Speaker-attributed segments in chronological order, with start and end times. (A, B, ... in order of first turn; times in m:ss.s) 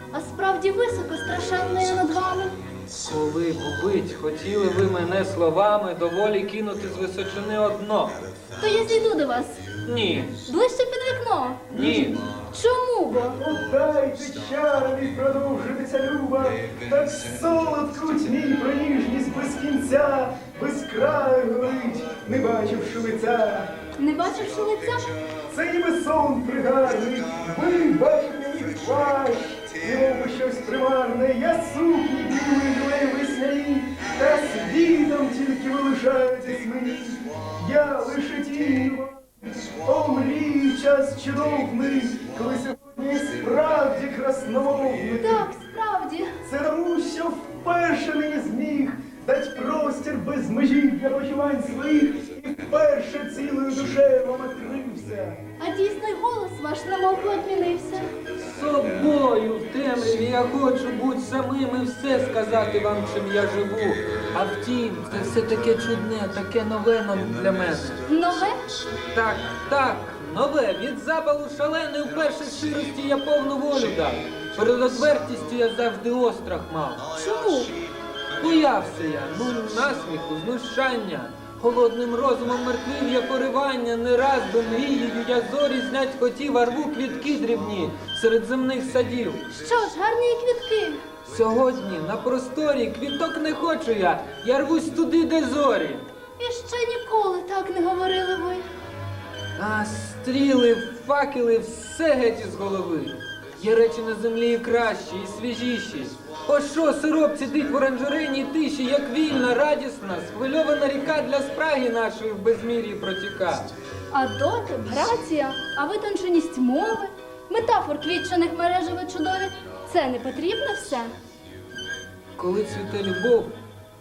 0:00.1-0:02.6 A
0:02.9-0:08.2 B
0:08.6-0:09.6 A
0:09.9-0:10.3 B
0:10.5-0:13.4 A
0:11.7-0:12.2 B
0:13.4-0:23.7 C
0:24.0-0:25.1 A
0:25.5-0:45.5 C
0:45.2-0:46.3 A
0:46.4-0:55.4 C
0:55.6-0:58.1 A
0:58.5-1:08.0 B
1:08.1-1:08.6 A
1:09.1-1:17.0 B
1:17.2-1:17.7 A
1:18.4-1:29.4 B
1:29.5-1:31.0 A
1:31.3-1:36.1 B
1:36.4-1:38.6 A
1:39.6-1:53.7 B
1:54.1-2:01.1 A
2:02.4-2:03.5 B